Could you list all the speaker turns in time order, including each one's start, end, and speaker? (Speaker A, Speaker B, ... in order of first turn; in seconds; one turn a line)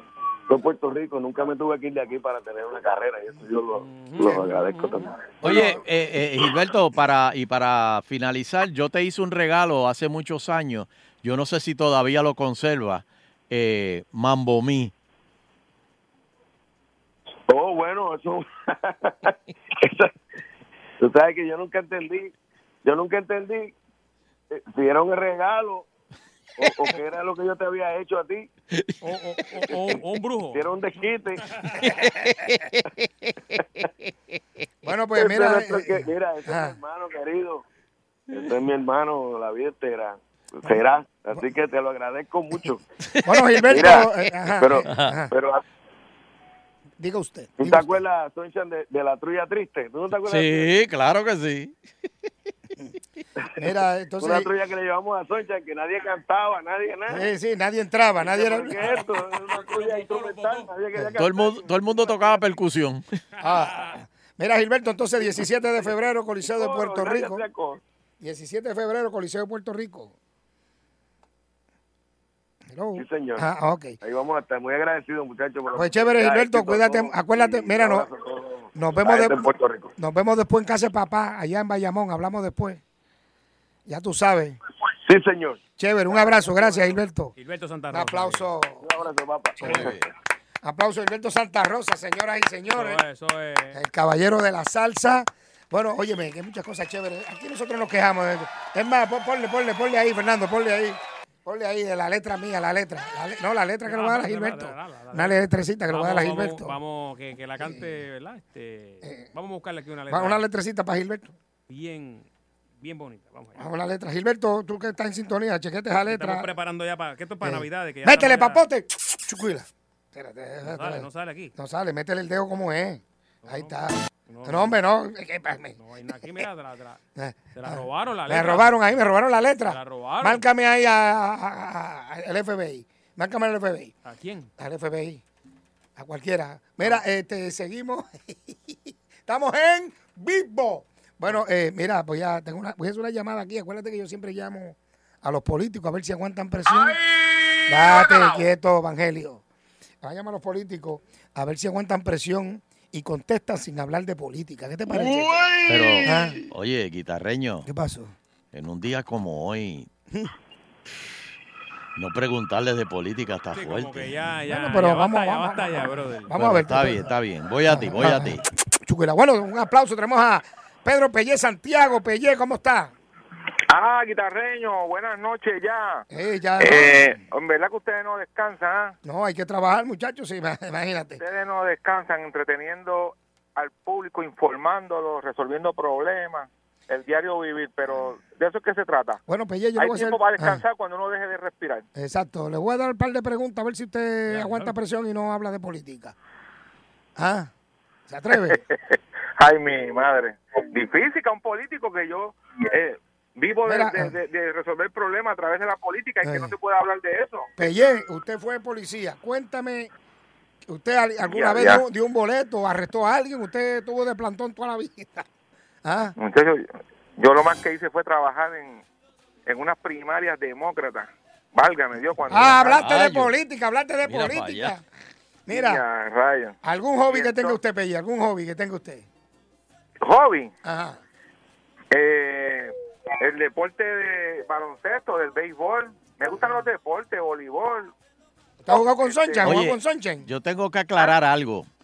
Speaker A: 0.5-5.5
Speaker B: 3.8-5.1
Speaker C: 5.4-14.9
Speaker A: 17.5-19.3
Speaker A: 19.8-20.1
Speaker A: 21.0-22.3
Speaker A: 22.8-23.7
Speaker A: 24.5-25.9
Speaker A: 26.6-28.5
Speaker B: 29.0-30.7
Speaker A: 30.5-31.4
Speaker B: 31.6-31.9
Speaker D: 34.8-36.8
Speaker A: 35.1-37.6
Speaker A: 38.3-42.8
Speaker D: 43.2-45.3
Speaker A: 43.7-44.1
Speaker A: 44.6-45.6
Speaker D: 47.0-48.0
Speaker A: 47.6-50.8
Speaker C: 50.3-51.7
Speaker D: 53.6-54.5
Speaker A: 54.2-57.2
Speaker D: 57.1-58.8
Speaker A: 58.2-62.4
Speaker B: 58.8-60.7
Speaker C: 61.2-63.0
Speaker B: 63.4-64.0
Speaker D: 63.4-67.4
Speaker A: 66.4-67.8
Speaker D: 68.2-70.1
Speaker D: 72.7-74.0
Speaker A: 73.0-73.5
Speaker A: 74.0-79.9
Speaker D: 75.7-78.1
Speaker D: 78.8-79.4
Speaker D: 80.0-82.8
Speaker D: 83.9-84.6
Speaker A: 85.0-85.6
Speaker D: 85.8-87.3
Speaker B: 86.3-88.5
Speaker D: 87.9-88.9
Speaker A: 88.8-90.0
Speaker D: 89.6-89.9
Speaker D: 90.6-93.0
Speaker B: 92.7-93.8
Speaker D: 93.7-106.8
Speaker B: 103.9-110.4
Speaker D: 107.6-108.0
Speaker D: 109.0-109.3
Speaker D: 110.1-111.3
Speaker B: 111.7-112.3
Speaker B: 112.8-113.6
Speaker D: 113.6-116.5
Speaker B: 116.1-118.6
Speaker D: 117.4-125.8
Speaker B: 120.6-121.5
Speaker B: 123.5-124.8
Speaker B: 125.8-127.0
Speaker D: 127.2-133.9
Speaker B: 127.5-128.8
Speaker B: 129.7-130.5
Speaker B: 134.0-134.5
Speaker D: 134.6-135.2
Speaker D: 136.0-147.0
Speaker D: 147.7-149.4
Speaker D: 150.0-156.4
Speaker C: 155.7-156.0
Speaker D: 157.7-158.1
Speaker B: 163.5-166.4
Speaker D: 164.5-167.1
Speaker C: 166.9-168.3
Speaker D: 167.6-172.9
Speaker E: 173.7-176.1
Speaker D: 176.1-177.2
Speaker E: 176.6-179.0
Speaker D: 179.0-181.2
Speaker E: 181.2-189.2
Speaker D: 189.3-190.6
Speaker E: 189.8-191.9
Speaker D: 192.0-196.2
Speaker B: 194.3-194.8
Speaker D: 197.2-197.5
Speaker D: 198.1-198.6
Speaker E: 198.3-207.5
Speaker D: 203.7-204.1
Speaker D: 206.2-206.5
Speaker D: 207.6-209.9
Speaker D: 210.7-215.3
Speaker E: 211.2-211.8
Speaker D: 215.8-216.2
Speaker E: 216.2-216.7
Speaker E: 217.2-218.8
Speaker E: 219.5-222.8
Speaker D: 222.3-224.8
Speaker C: 222.6-223.3
Speaker C: 224.2-224.7
Speaker D: 225.5-225.8
Speaker E: 225.5-227.6
Speaker D: 226.6-229.1
Speaker E: 230.0-230.5
Speaker D: 230.6-231.0
Speaker E: 231.9-237.9
Speaker D: 238.6-240.3
Speaker E: 238.7-239.6
Speaker C: 240.3-241.6